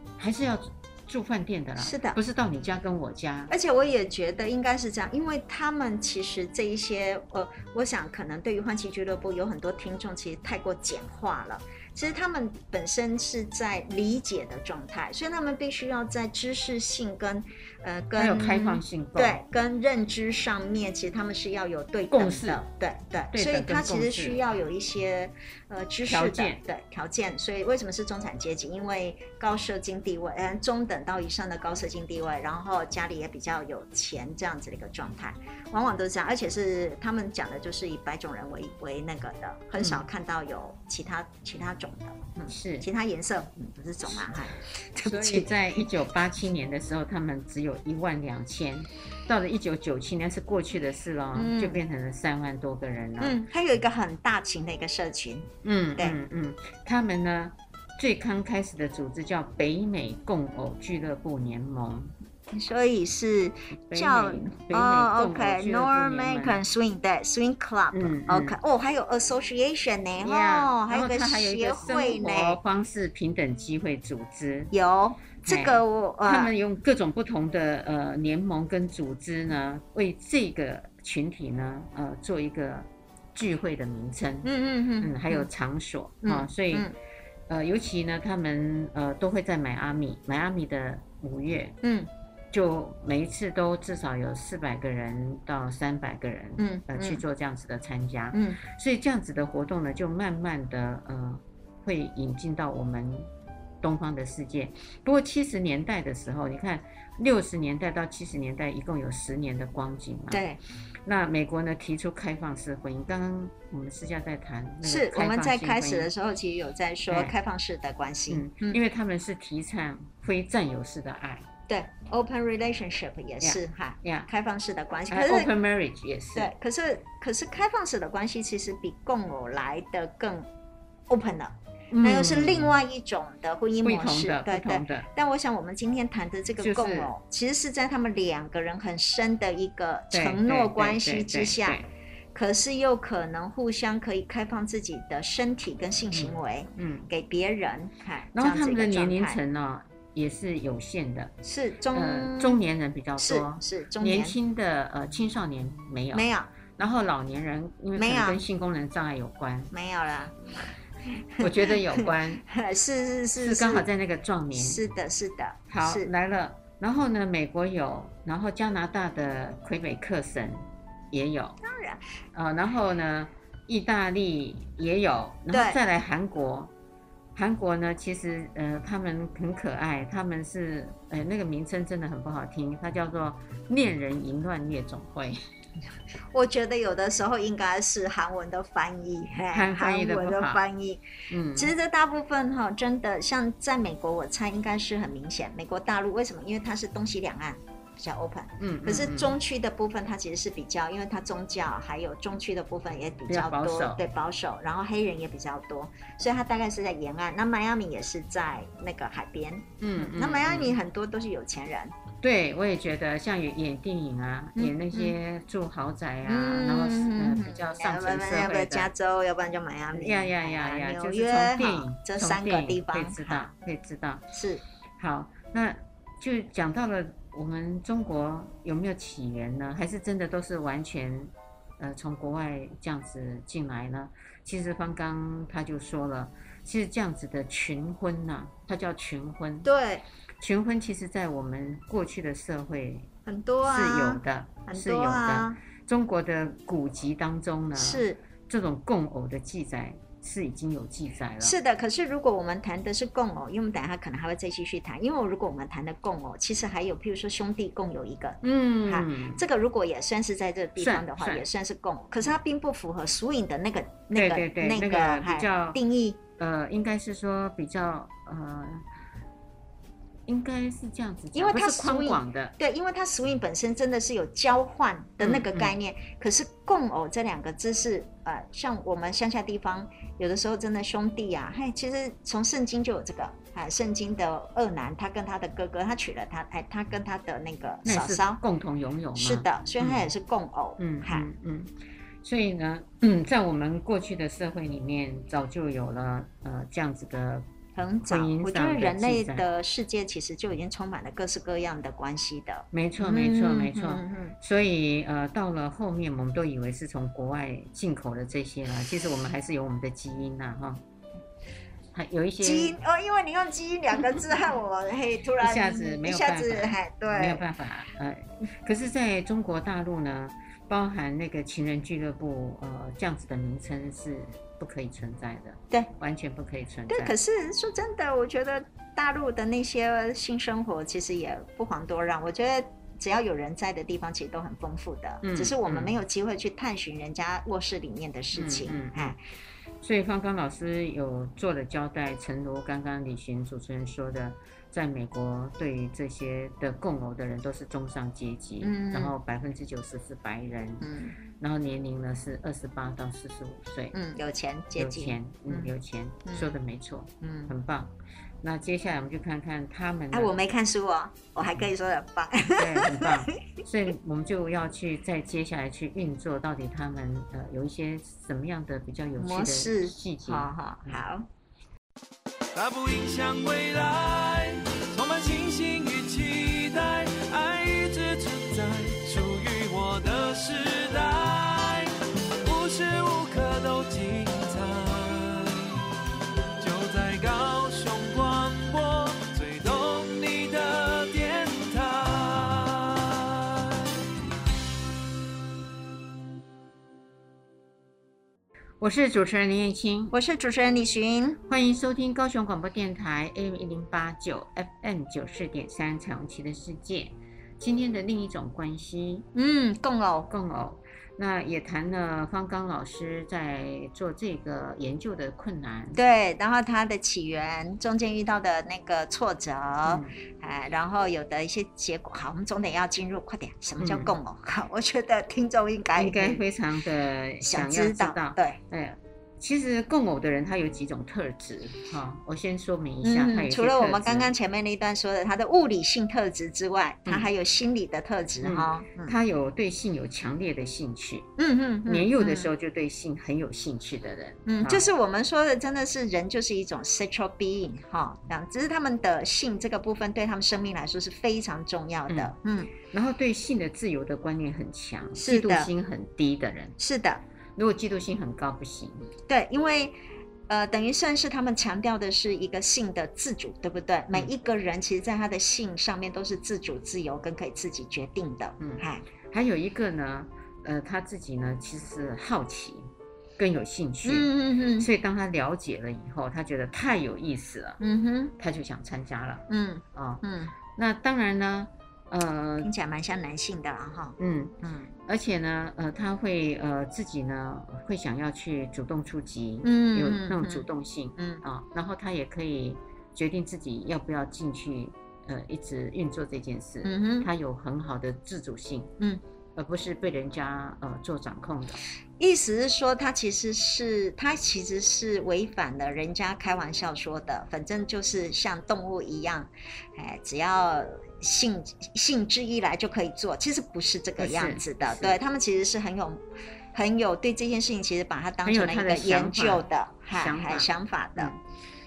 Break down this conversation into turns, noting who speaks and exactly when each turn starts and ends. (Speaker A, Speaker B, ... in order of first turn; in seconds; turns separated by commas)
Speaker A: 0.2-3.5, Speaker B: 1.8-2.2, Speaker B: 3.5-45.8, Speaker A: 18.1-19.4, Speaker A: 22.1-22.6, Speaker A: 23.3-24.4, Speaker A: 26.0-26.6, Speaker A: 39.8-40.0, Speaker A: 42.5-42.9, Speaker A: 45.0-53.4, Speaker B: 51.3-51.8, Speaker B: 53.2-56.2, Speaker A: 55.6-62.1, Speaker B: 62.5-72.6, Speaker A: 63.9-66.6, Speaker A: 67.9-68.6, Speaker A: 70.2-74.7, Speaker B: 74.7-76.5, Speaker A: 75.4-86.9, Speaker B: 84.4-85.5, Speaker B: 86.2-86.9, Speaker A: 87.5-91.8, Speaker B: 91.8-92.1, Speaker A: 92.5-103.3, Speaker B: 96.6-97.2, Speaker B: 98.3-98.6, Speaker A: 103.8-110.4, Speaker B: 110.3-110.6, Speaker A: 111.0-116.1, Speaker B: 114.8-118.8, Speaker A: 117.1-117.3, Speaker A: 118.3-121.5, Speaker B: 121.7-125.5, Speaker A: 123.4-124.3, Speaker A: 125.1-126.5, Speaker B: 126.3-130.5, Speaker B: 131.1-141.8, Speaker A: 131.9-132.8, Speaker A: 133.8-135.1, Speaker A: 136.6-137.1, Speaker A: 140.1-141.9, Speaker B: 142.3-149.4, Speaker A: 146.1-147.1, Speaker A: 148.3-151.3, Speaker B: 151.4-152.6, Speaker A: 151.9-159.7, Speaker B: 153.2-154.4, Speaker B: 156.1-156.5, Speaker B: 157.9-158.4, Speaker B: 159.7-163.9, Speaker A: 161.4-162.4, Speaker A: 163.3-164.8, Speaker B: 164.5-166.1, Speaker A: 165.7-171.6, Speaker B: 171.6-172.0, Speaker A: 172.3-176.7, Speaker B: 175.5-175.8, Speaker A: 177.3-185.4, Speaker B: 186.3-191.0, Speaker A: 189.5-190.6, Speaker A: 191.3-191.7, Speaker B: 191.5-211.9, Speaker A: 198.6-199.4, Speaker A: 203.3-204.0, Speaker A: 209.8-210.8, Speaker A: 212.2-218.9, Speaker B: 214.6-215.2, Speaker B: 216.2-223.4, Speaker A: 219.9-224.2, Speaker B: 224.3-224.6, Speaker A: 225.0-239.7, Speaker B: 239.6-240.0, Speaker A: 240.4-243.1, Speaker B: 243.2-245.6, Speaker A: 243.6-251.6, Speaker B: 247.7-248.2, Speaker B: 251.4-266.2, Speaker A: 258.4-259.4, Speaker A: 260.8-261.4, Speaker A: 264.1-265.8, Speaker A: 266.4-268.8, Speaker A: 270.3-272.5, Speaker B: 271.3-288.4, Speaker A: 275.2-275.7, Speaker A: 287.8-290.1, Speaker B: 289.1-291.3, Speaker A: 290.8-297.4, Speaker B: 297.8-304.3, Speaker A: 298.0-299.4, Speaker A: 302.7-310.8, Speaker A: 311.9-312.8, Speaker B: 312.4-317.4, Speaker A: 315.4-327.1, Speaker B: 326.9-339.2, Speaker A: 335.2-335.9, Speaker A: 338.3-339.1, Speaker A: 339.8-353.9, Speaker B: 348.6-349.1, Speaker B: 350.8-351.2, Speaker B: 353.9-355.7, Speaker A: 354.8-360.4, Speaker B: 356.3-356.6, Speaker B: 357.2-357.5, Speaker B: 360.1-363.3, Speaker A: 362.6-371.0, Speaker B: 369.2-371.3, Speaker C: 372.5-385.8, Speaker C: 386.6-393.9, Speaker A: 398.8-400.1, Speaker B: 400.1-401.4, Speaker A: 401.5-409.2, Speaker B: 409.3-410.3, Speaker A: 410.3-416.0, Speaker B: 415.9-426.4, Speaker A: 419.8-420.1, Speaker A: 423.8-424.1, Speaker A: 425.9-434.3, Speaker B: 427.4-428.6, Speaker B: 433.0-439.1, Speaker A: 438.4-441.3, Speaker B: 441.4-442.5, Speaker A: 441.9-444.8, Speaker B: 444.4-452.7, Speaker A: 452.9-456.8, Speaker B: 455.1-455.7, Speaker B: 456.8-457.2, Speaker A: 457.6-459.1, Speaker B: 459.3-459.9, Speaker B: 460.5-469.0, Speaker A: 468.6-477.8, Speaker B: 474.0-474.9, Speaker B: 477.8-478.3, Speaker A: 478.4-480.2, Speaker B: 479.5-480.5, Speaker A: 480.7-482.7, Speaker B: 482.6-484.9, Speaker A: 484.2-498.9, Speaker B: 489.6-490.6, Speaker B: 491.2-491.4, Speaker B: 496.8-497.3, Speaker A: 499.6-501.8, Speaker B: 502.2-516.2, Speaker A: 514.2-515.2, Speaker B: 516.7-521.4, Speaker A: 518.4-521.3